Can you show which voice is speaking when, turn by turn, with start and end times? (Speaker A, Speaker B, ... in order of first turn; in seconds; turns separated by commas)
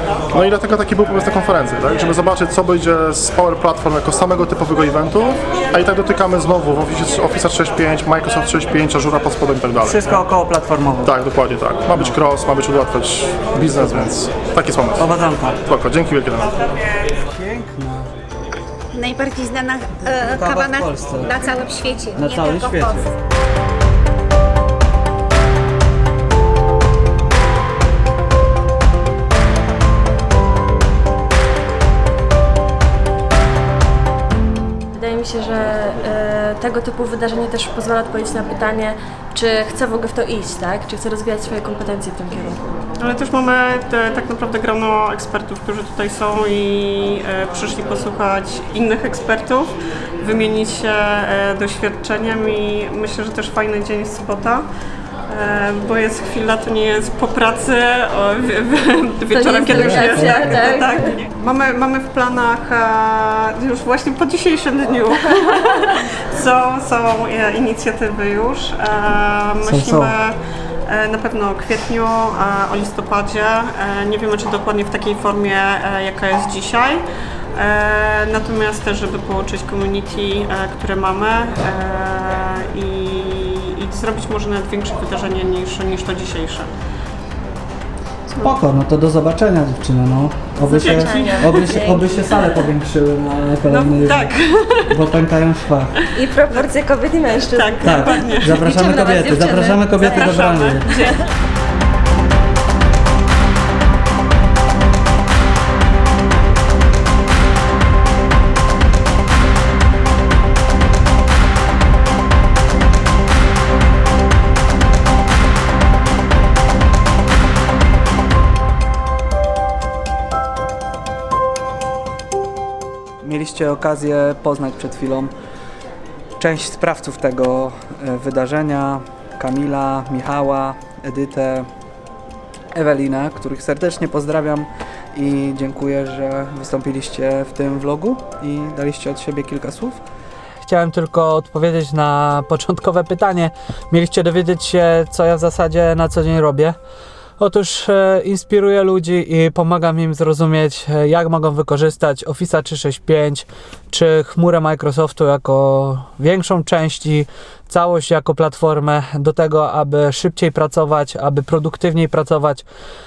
Speaker A: 0.3-10.1, Speaker B: 9.8-11.2, Speaker A: 11.0-15.1, Speaker B: 13.7-14.0, Speaker B: 15.0-15.6, Speaker A: 15.7-16.6, Speaker C: 16.7-17.0, Speaker B: 17.3-18.1, Speaker D: 18.9-23.0, Speaker B: 20.2-21.4, Speaker B: 22.1-23.1, Speaker E: 34.9-42.6, Speaker C: 43.0-54.7, Speaker C: 55.3-70.3, Speaker E: 59.3-61.2, Speaker B: 59.6-60.7, Speaker B: 69.6-70.2, Speaker C: 70.9-77.0, Speaker C: 77.5-86.7, Speaker E: 88.3-88.5, Speaker B: 88.4-94.3, Speaker C: 90.6-91.7, Speaker E: 90.7-92.3, Speaker C: 93.7-94.9, Speaker B: 94.9-96.0, Speaker C: 96.0-98.7, Speaker E: 96.1-101.1, Speaker B: 97.8-100.9, Speaker C: 100.0-101.2, Speaker B: 123.2-125.3, Speaker B: 126.4-131.7, Speaker B: 132.7-140.0, Speaker B: 140.6-146.8, Speaker B: 147.4-162.6